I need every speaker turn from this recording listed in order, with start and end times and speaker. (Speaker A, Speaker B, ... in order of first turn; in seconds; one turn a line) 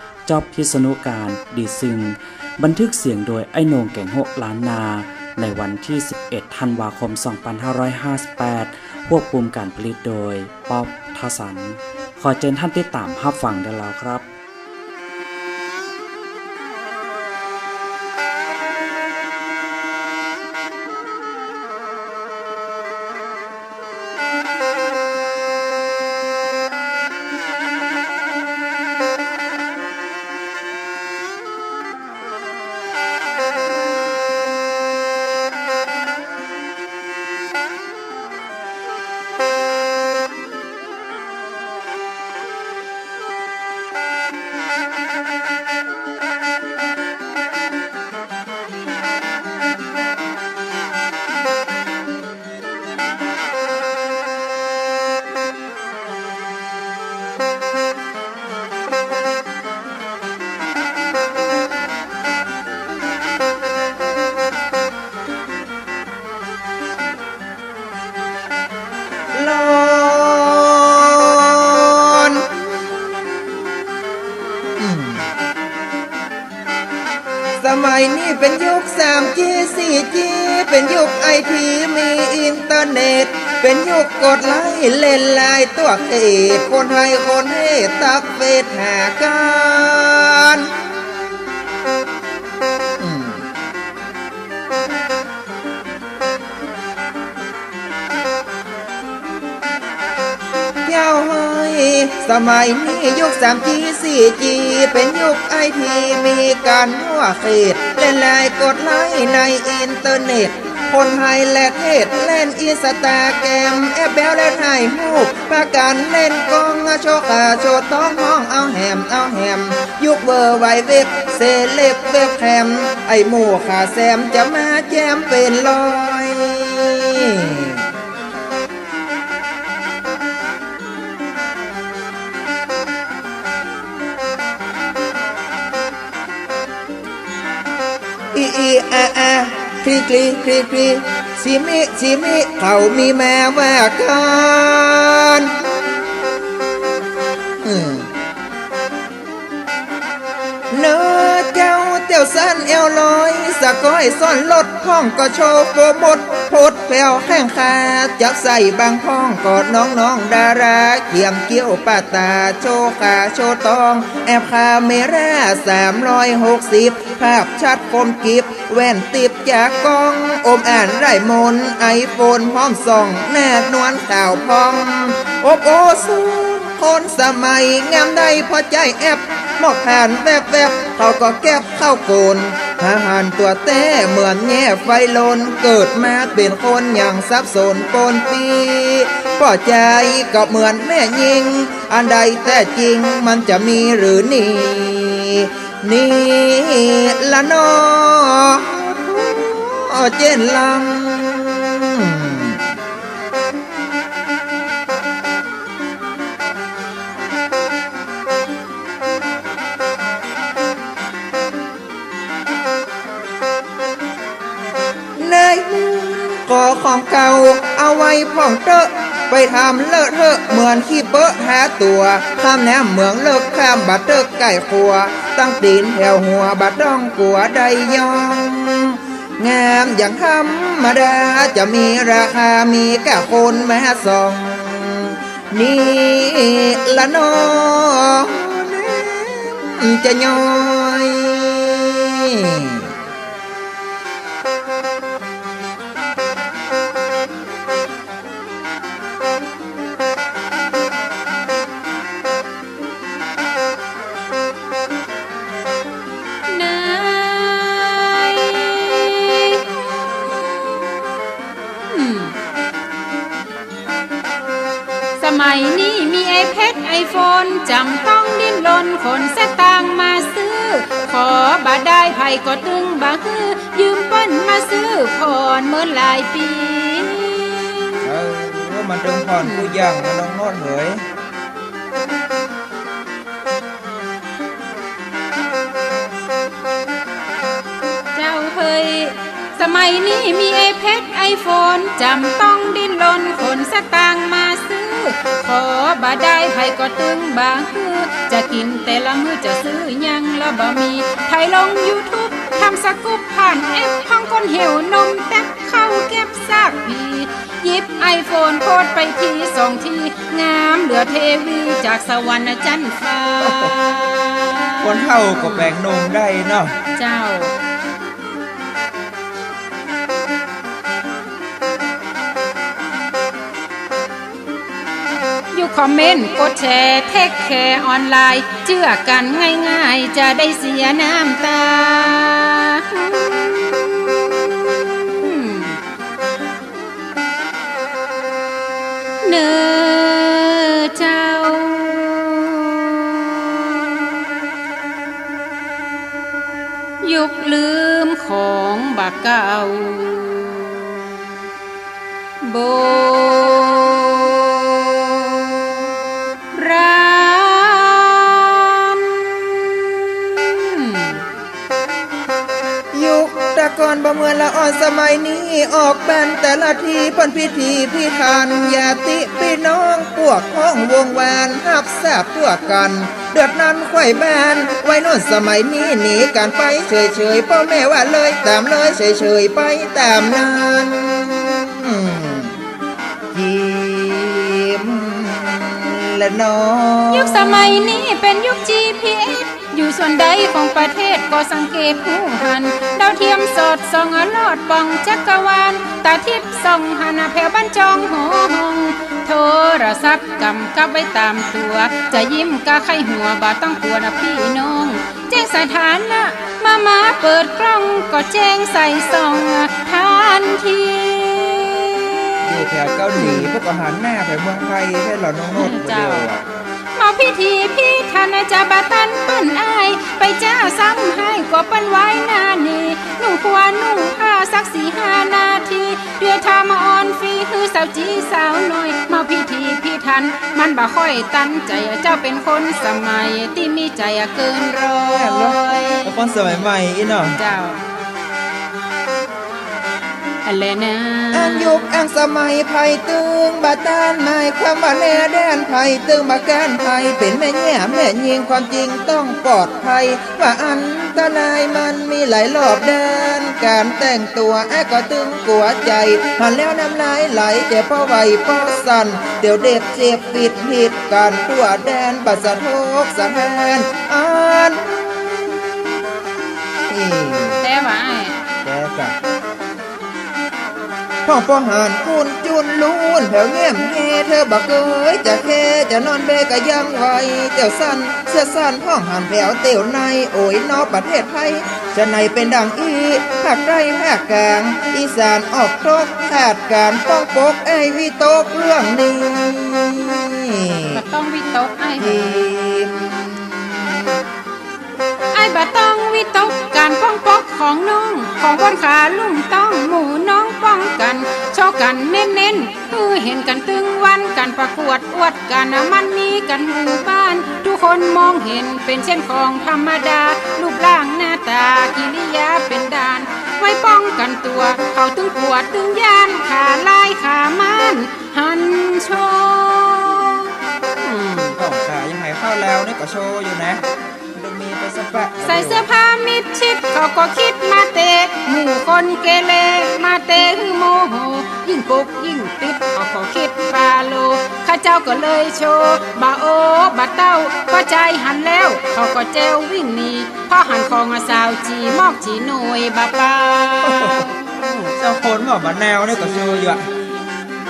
Speaker A: 0.3-14.3
Speaker B: 69.3-72.5
Speaker B: 74.8-75.3
Speaker B: 77.6-90.9
Speaker B: 93.0-93.4
Speaker B: 100.8-127.9
Speaker B: 138.3-145.6
Speaker B: 147.6-148.1
Speaker B: 150.7-202.7
Speaker B: 215.2-242.9
Speaker C: 256.5-260.9
Speaker C: 261.9-262.3
Speaker C: 265.2-278.0
Speaker B: 278.0-281.0
Speaker C: 279.4-279.7
Speaker C: 288.1-315.7
Speaker B: 313.4-313.8
Speaker B: 314.8-316.7
Speaker C: 317.0-317.5
Speaker C: 325.5-335.8
Speaker C: 339.2-344.2
Speaker C: 347.0-351.2
Speaker C: 352.4-355.7
Speaker C: 356.5-361.2
Speaker B: 362.9-382.6
Speaker B: 383.3-388.0
Speaker C: 387.1-412.4
Speaker B: 412.4-416.4
Speaker C: 413.1-413.5
Speaker C: 415.6-416.3
Speaker C: 416.9-436.3
Speaker B: 435.1-437.4
Speaker C: 437.4-437.8
Speaker C: 440.4-441.9
Speaker B: 441.3-465.8
Speaker B: 466.9-467.6
Speaker C: 467.6-468.4
Speaker B: 468.6-469.1
Speaker B: 471.2-491.0
Speaker C: 490.9-492.4
Speaker B: 492.0-494.1
Speaker C: 495.3-521.5
Speaker B: 521.5-525.9
Speaker C: 525.4-544.9
Speaker B: 543.8-544.3
Speaker B: 545.0-546.8
Speaker C: 546.2-547.2